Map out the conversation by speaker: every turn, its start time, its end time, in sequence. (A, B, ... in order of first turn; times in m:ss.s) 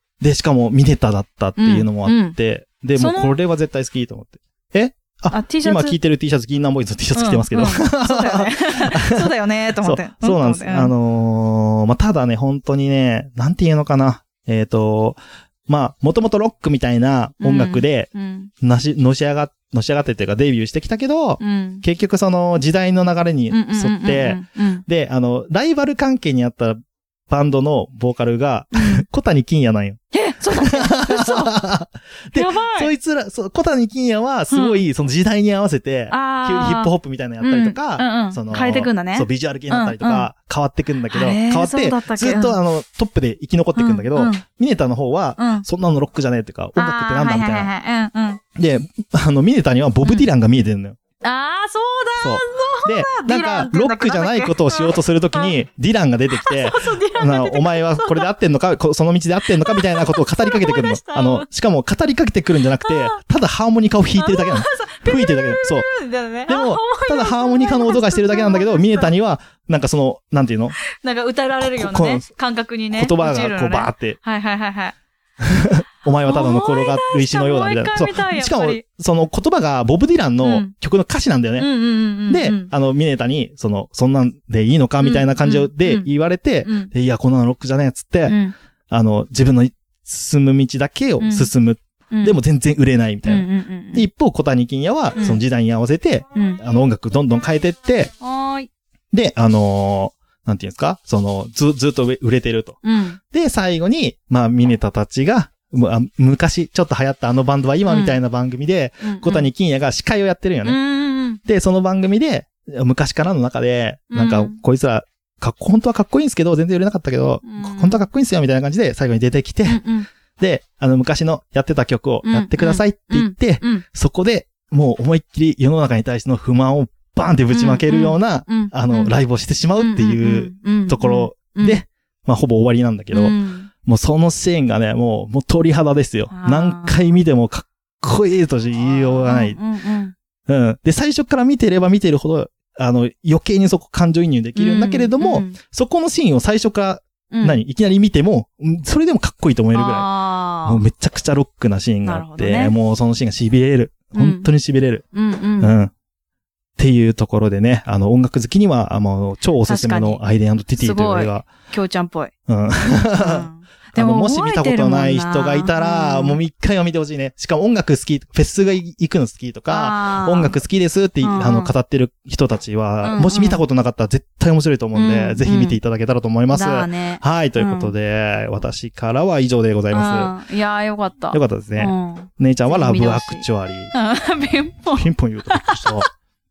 0:00.2-0:09.3 A
0:01.6-0:02.4 B
0:02.9-0:03.4 B
0:05.3-0:06.0 B
0:07.1-0:10.9 B
0:09.8-0:18.1 A
0:17.4-0:18.5 B
0:18.6-0:26.8 A
0:21.4-0:21.8 B
0:23.5-0:24.8 B
0:27.3-0:30.0 A
0:28.7-0:29.0 B
0:30.1-0:31.5 B
0:30.5-0:47.7 A
0:32.3-0:32.9 B
0:34.5-0:34.8 B
0:36.1-0:40.3 B
0:41.1-0:42.6 B
0:43.8-0:44.4 B
0:45.4-0:45.6 B
0:46.8-0:48.4 B
0:48.6-0:51.0 A
0:51.2-0:55.5 B
0:52.2-1:05.9 A
0:56.3-0:58.3 B
0:59.4-1:01.5 B
1:02.8-1:03.2 B
1:04.2-1:09.1 B
1:06.5-1:10.8 A
1:10.8-1:15.0 B
1:11.6-1:12.2 A
1:12.9-1:14.2 A
1:15.4-1:21.7 A
1:16.1-1:18.8 B
1:20.4-1:20.7 B
1:21.6-1:22.7 B
1:22.3-1:28.4 A
1:25.0-1:26.1 B
1:26.6-1:26.9 B
1:28.2-1:28.5 B
1:28.9-1:38.1 A
1:31.2-1:31.5 B
1:32.1-1:32.4 B
1:33.2-1:34.0 B
1:35.2-1:35.4 B
1:36.3-1:36.6 B
1:38.2-1:38.7 B
1:39.1-1:42.8 A
1:42.8-1:43.2 B
1:43.3-1:50.8 A
1:47.9-1:48.2 B
1:49.0-1:49.5 B
1:50.6-1:51.4 B
1:51.4-1:59.8 A
1:54.1-1:54.6 B
1:57.4-1:58.1 B
1:59.6-2:00.1 B
2:00.4-2:19.6 A
2:02.2-2:03.8 B
2:07.5-2:09.1 B
2:09.8-2:11.8 B
2:13.1-2:13.7 B
2:16.3-2:17.0 B
2:18.8-2:20.1 B
2:20.5-2:30.1 A
2:24.6-2:25.6 B
2:27.3-2:27.6 B
2:29.7-2:30.8 B
2:30.6-2:35.0 A
2:32.0-2:32.8 B
2:34.2-2:34.5 B
2:35.1-2:35.7 B
2:35.6-2:35.9 A
2:36.8-2:41.5 A
2:39.6-2:40.2 B
2:40.8-2:42.3 B
2:42.5-3:00.4 A
2:43.0-2:46.4 B
2:49.7-2:50.5 B
2:51.2-2:51.7 B
2:53.0-2:53.6 B
2:54.9-2:55.8 B
2:56.5-2:57.9 B
2:59.9-3:06.0 B
3:01.3-3:04.0 A
3:04.9-3:06.1 A